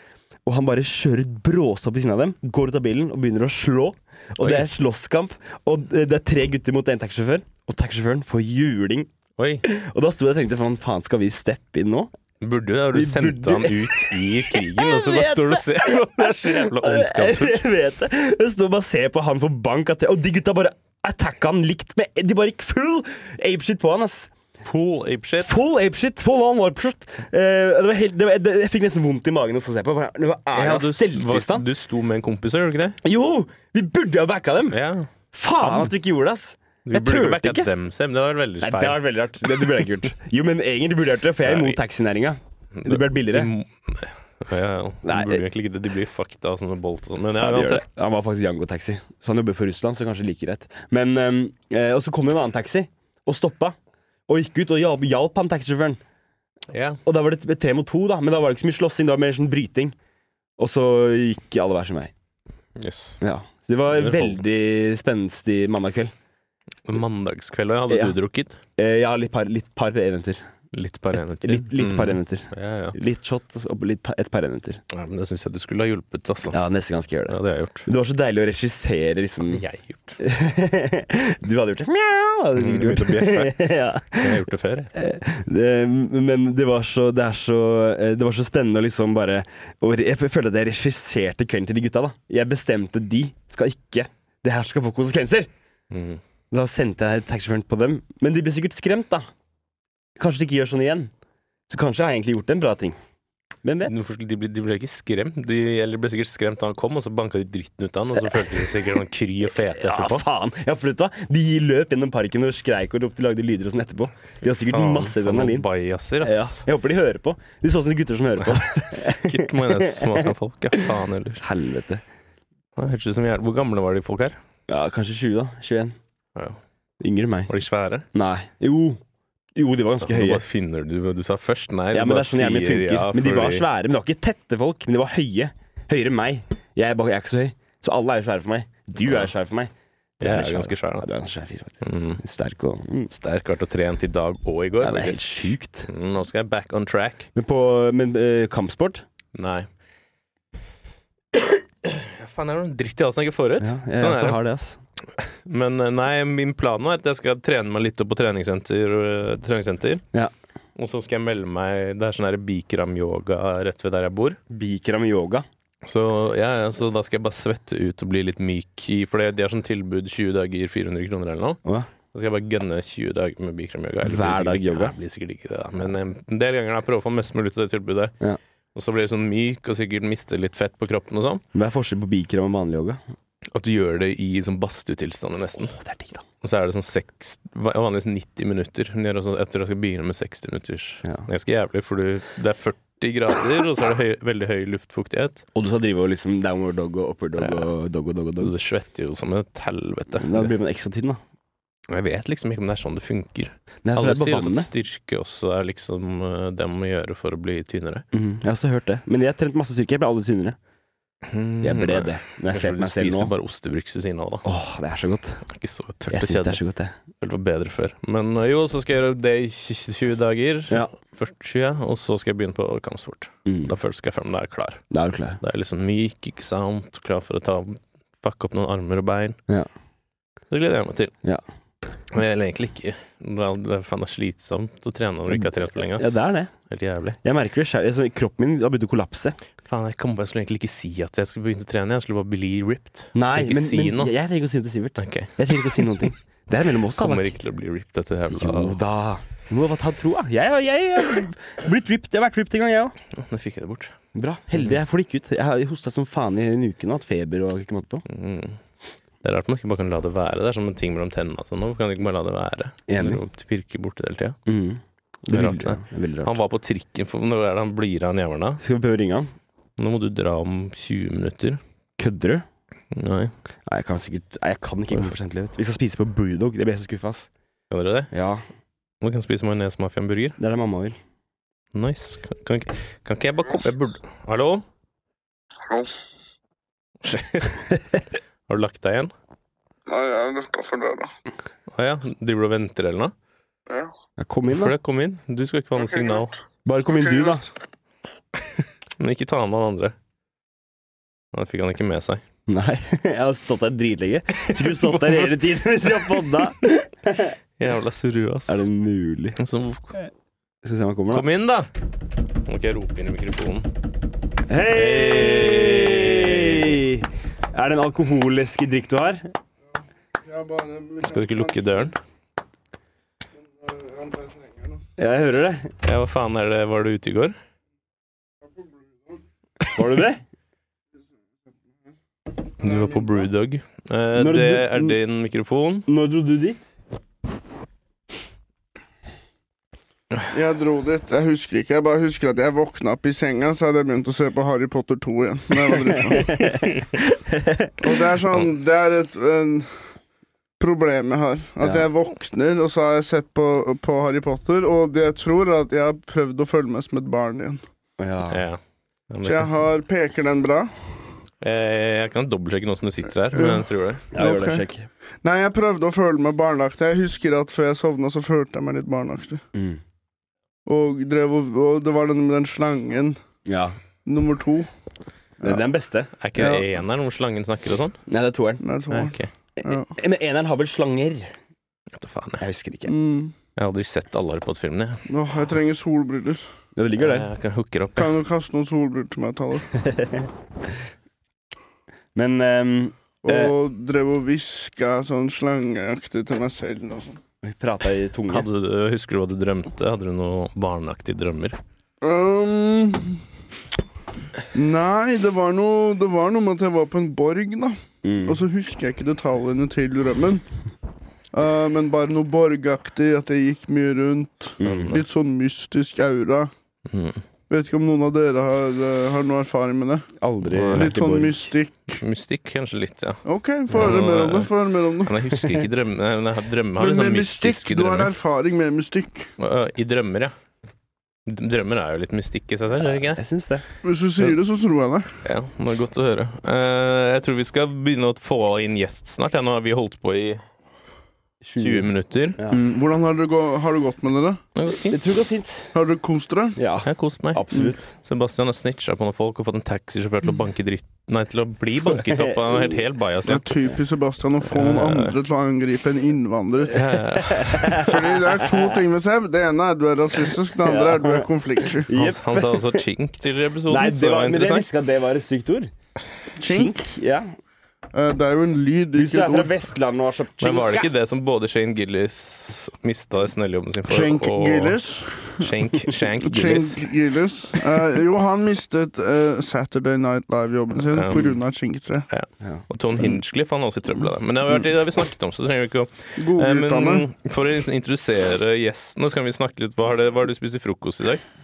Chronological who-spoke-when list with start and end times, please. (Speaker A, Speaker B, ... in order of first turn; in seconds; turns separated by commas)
Speaker A: 0.5-9.1, Speaker B: 4.4-4.7, Speaker B: 9.4-9.7, Speaker A: 9.6-12.1, Speaker B: 12.4-17.7, Speaker A: 12.9-24.3, Speaker B: 24.6-25.6, Speaker A: 25.4-31.7, Speaker B: 30.5-33.0, Speaker A: 33.0-34.8, Speaker B: 34.7-35.1, Speaker A: 35.3-37.7, Speaker B: 35.6-35.9, Speaker B: 36.9-39.0, Speaker A: 38.6-43.5, Speaker B: 41.5-41.8, Speaker B: 42.8-47.8, Speaker A: 45.0-45.4, Speaker A: 47.4-53.8, Speaker A: 54.3-56.0, Speaker B: 56.7-57.0, Speaker A: 57.1-60.0, Speaker A: 60.6-62.1, Speaker B: 62.8-63.2, Speaker A: 63.2-66.1, Speaker B: 63.9-64.4, Speaker B: 66.9-68.6, Speaker A: 67.9-68.2, Speaker A: 68.8-70.4, Speaker B: 70.7-73.0, Speaker A: 71.4-74.8, Speaker B: 74.9-76.6, Speaker A: 76.5-79.6, Speaker B: 77.3-77.9, Speaker B: 79.5-80.2, Speaker A: 80.2-84.4, Speaker B: 82.5-84.9, Speaker A: 84.9-95.5, Speaker B: 95.9-96.2, Speaker A: 96.5-99.3, Speaker A: 100.2-101.1, Speaker A: 101.7-103.0, Speaker A: 103.6-103.9, Speaker B: 103.9-110.2, Speaker A: 108.2-108.7, Speaker A: 109.6-115.7, Speaker B: 114.7-116.7, Speaker A: 116.2-120.3, Speaker B: 118.4-121.4, Speaker A: 121.4-122.0, Speaker B: 122.8-124.4, Speaker A: 124.7-126.0, Speaker A: 127.0-127.5, Speaker B: 127.5-128.1, Speaker A: 128.1-129.0, Speaker A: 129.6-130.4, Speaker B: 130.0-133.7, Speaker A: 131.9-143.1, Speaker B: 140.2-141.1, Speaker B: 141.8-142.2, Speaker B: 143.1-147.3, Speaker A: 144.8-145.9, Speaker A: 147.3-149.0, Speaker B: 149.3-149.7, Speaker B: 151.3-154.4, Speaker A: 153.6-154.8, Speaker B: 155.2-160.0, Speaker B: 160.8-164.4, Speaker A: 164.5-165.5, Speaker B: 165.8-171.6, Speaker B: 172.1-178.1, Speaker A: 174.0-174.9, Speaker B: 178.7-181.4, Speaker A: 181.5-183.0, Speaker B: 183.5-185.8, Speaker A: 185.7-186.2, Speaker B: 186.4-195.4, Speaker A: 195.6-198.5, Speaker B: 197.4-197.7, Speaker B: 198.4-200.5, Speaker A: 200.2-201.2, Speaker B: 201.9-208.0, Speaker A: 203.8-204.7, Speaker A: 208.1-210.6, Speaker B: 211.3-214.4, Speaker A: 211.6-213.3, Speaker A: 214.4-215.4, Speaker B: 215.5-216.6, Speaker A: 216.1-216.9, Speaker B: 217.2-224.8, Speaker A: 223.5-223.7, Speaker A: 224.9-225.4, Speaker B: 225.4-229.4, Speaker B: 230.5-231.1, Speaker B: 232.1-237.2, Speaker A: 235.3-236.5, Speaker A: 237.2-239.4, Speaker B: 239.6-244.1, Speaker A: 243.1-247.3, Speaker B: 245.0-245.4, Speaker B: 246.9-248.8, Speaker A: 248.3-252.9, Speaker B: 253.1-253.9, Speaker A: 254.1-258.0, Speaker B: 258.1-258.6, Speaker B: 259.2-264.4, Speaker A: 262.9-263.2, Speaker A: 264.5-266.3, Speaker B: 265.3-268.6, Speaker A: 268.6-269.3, Speaker B: 269.8-271.6, Speaker A: 272.0-272.4, Speaker B: 272.9-273.3, Speaker A: 273.7-277.3, Speaker B: 277.7-278.1, Speaker A: 278.1-278.4, Speaker B: 279.0-280.4, Speaker A: 280.4-281.0, Speaker B: 281.7-284.6, Speaker B: 287.0-287.7, Speaker B: 288.5-289.1, Speaker C: 289.9-291.1, Speaker B: 291.7-293.1, Speaker A: 294.2-294.7, Speaker B: 294.5-296.3, Speaker A: 296.7-297.4, Speaker B: 299.0-299.9, Speaker B: 301.3-302.2, Speaker A: 302.5-307.4, Speaker B: 304.7-305.3, Speaker B: 307.6-308.6, Speaker A: 308.5-309.4, Speaker B: 309.4-310.0, Speaker A: 310.6-311.3, Speaker B: 311.1-311.7, Speaker B: 312.4-313.7, Speaker A: 314.5-319.3, Speaker B: 314.7-316.8, Speaker C: 320.2-321.7, Speaker B: 321.0-322.0, Speaker C: 323.5-324.8, Speaker A: 325.0-325.7, Speaker B: 325.8-327.4, Speaker C: 328.6-329.2, Speaker A: 329.7-330.2, Speaker B: 332.6-335.9, Speaker C: 332.7-333.0, Speaker A: 334.2-335.0, Speaker A: 335.9-336.6, Speaker C: 340.3-346.6, Speaker A: 345.9-347.9, Speaker C: 347.8-349.7, Speaker C: 350.6-357.6, Speaker A: 351.6-351.9, Speaker A: 358.0-358.4, Speaker B: 358.3-359.5, Speaker C: 359.2-360.7, Speaker B: 361.4-364.1, Speaker C: 363.3-364.6, Speaker A: 364.1-364.9, Speaker C: 365.2-369.4, Speaker A: 369.5-369.8, Speaker C: 370.7-373.2, Speaker A: 373.5-373.8, Speaker C: 374.1-374.7, Speaker A: 375.4-376.1, Speaker B: 376.2-378.0, Speaker C: 376.4-376.6, Speaker A: 378.1-378.6, Speaker C: 378.6-379.9, Speaker B: 378.9-379.3, Speaker A: 379.6-381.3, Speaker B: 381.9-382.4, Speaker A: 382.4-382.9, Speaker C: 382.9-383.3, Speaker B: 383.6-385.0, Speaker C: 385.1-386.5, Speaker A: 386.8-387.3, Speaker B: 387.0-388.1, Speaker C: 388.0-389.8, Speaker A: 389.8-390.3, Speaker A: 392.1-393.5, Speaker C: 393.2-397.2, Speaker A: 397.4-398.5, Speaker B: 398.3-401.6, Speaker C: 402.0-403.2, Speaker C: 404.5-410.4, Speaker A: 408.0-408.4, Speaker C: 411.3-416.5, Speaker A: 414.6-415.0, Speaker B: 414.6-415.0, Speaker B: 416.9-417.2, Speaker C: 417.5-420.1, Speaker A: 420.2-421.5, Speaker B: 420.5-420.9, Speaker C: 420.7-422.0, Speaker B: 422.0-423.2, Speaker C: 423.2-425.1, Speaker A: 423.7-424.0, Speaker B: 423.7-424.5, Speaker B: 425.1-428.1, Speaker C: 426.8-429.3, Speaker B: 429.4-430.3, Speaker B: 431.3-433.2, Speaker A: 433.1-433.6, Speaker C: 433.8-435.1, Speaker B: 435.2-440.4, Speaker A: 441.4-442.6, Speaker B: 441.6-442.4, Speaker C: 442.5-444.4, Speaker B: 444.6-445.0, Speaker A: 444.9-445.7, Speaker C: 445.7-446.6, Speaker A: 446.6-447.9, Speaker B: 446.9-453.5, Speaker A: 451.9-452.8, Speaker C: 453.3-457.0, Speaker B: 454.5-455.1, Speaker B: 456.7-457.9, Speaker A: 457.3-458.8, Speaker C: 457.6-461.9, Speaker A: 460.6-462.8, Speaker B: 461.9-464.7, Speaker A: 463.7-465.7, Speaker C: 466.4-466.9, Speaker A: 466.4-467.3, Speaker C: 467.9-469.5, Speaker A: 468.9-470.9, Speaker B: 470.4-474.8, Speaker C: 473.9-482.1, Speaker B: 475.4-476.8, Speaker B: 480.9-481.4, Speaker B: 482.1-491.2, Speaker C: 486.2-487.0